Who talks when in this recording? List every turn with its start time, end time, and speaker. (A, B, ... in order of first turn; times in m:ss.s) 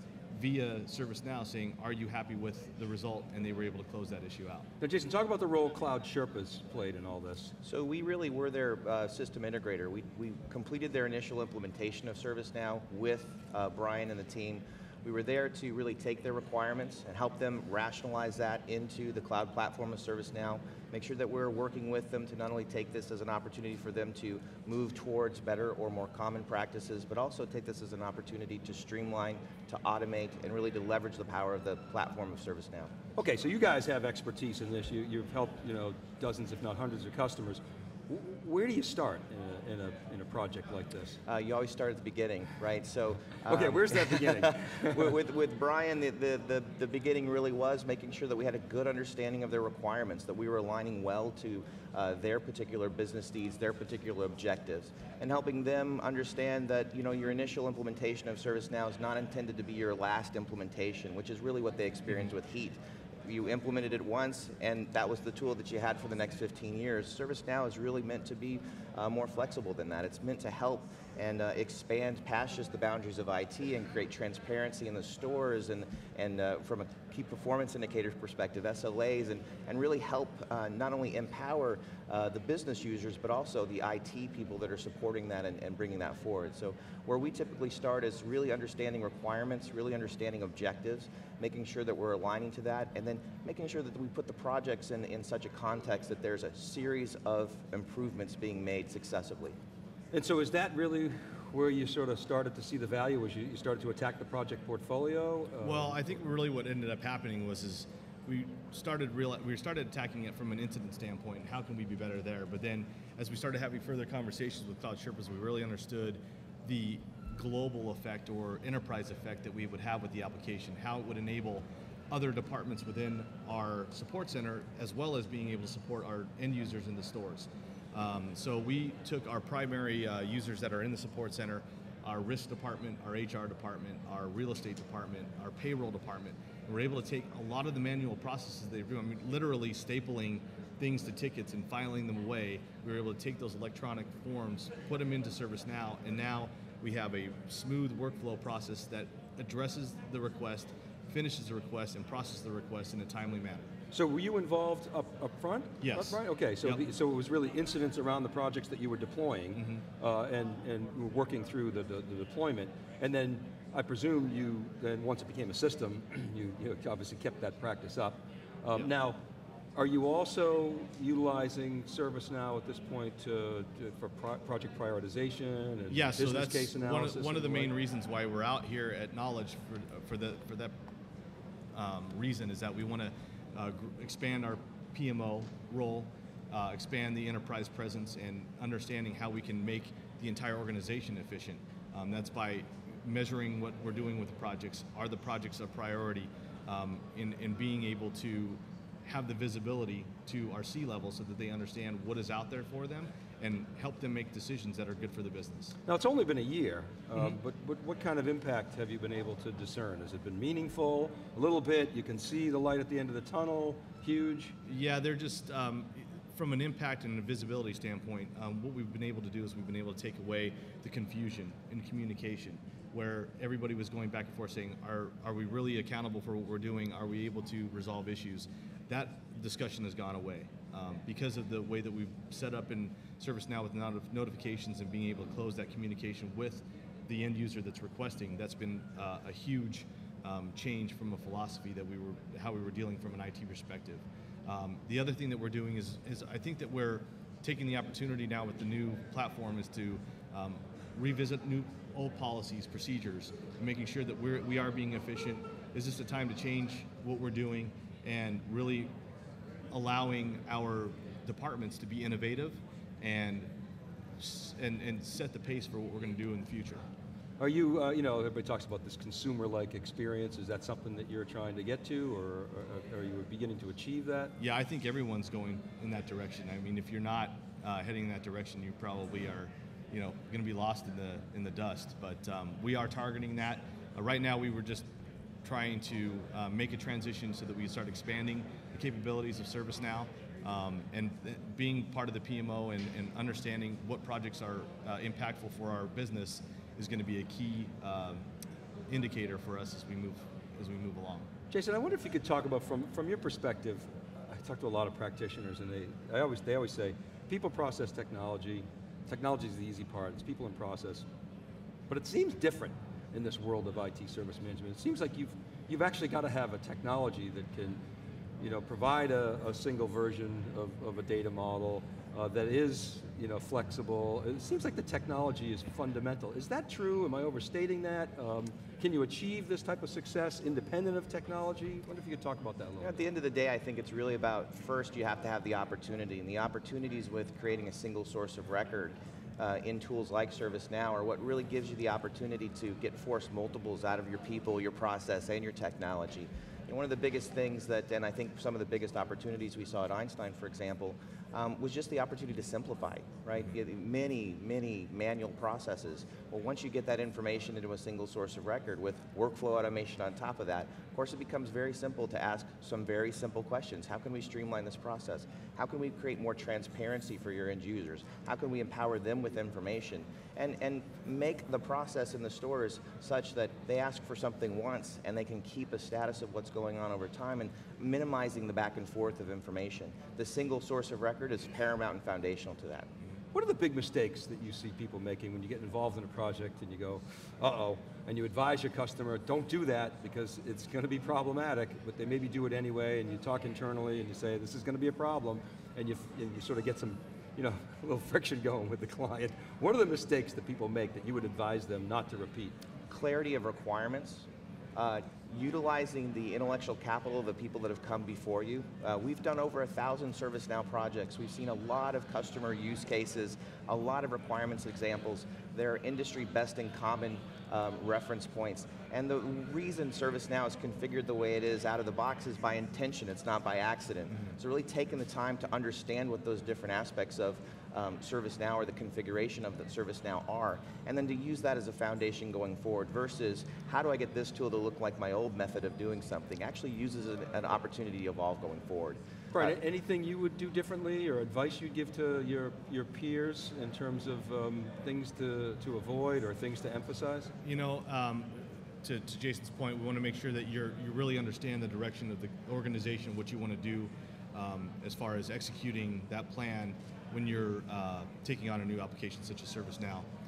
0:00.3-0:04.6 A
0:04.8-0:07.5 B
0:07.6-0:32.9 C
0:33.1-0:41.2 B
0:41.3-1:39.6 C
0:43.5-0:45.1 B
1:40.1-1:46.1 B
1:45.6-2:33.7 A
2:33.9-2:49.2 B
2:35.8-2:36.8 A
2:39.5-2:39.8 A
2:49.8-2:57.7 B
2:55.9-3:00.8 A
3:01.7-3:25.8 A
3:25.9-3:34.5 B
3:34.6-4:18.9 A
4:19.7-4:23.5 A
4:24.2-4:26.8 A
4:27.4-4:34.3 B
4:34.4-4:44.9 A
4:45.4-4:58.2 A
4:58.9-5:01.3 A
5:01.5-5:11.0 B
5:11.9-5:17.8 B
5:18.4-5:33.0 B
5:32.8-6:22.9 C
6:23.3-6:42.6 B
6:42.9-7:19.6 C
7:19.3-7:27.3 B
7:27.4-7:40.0 A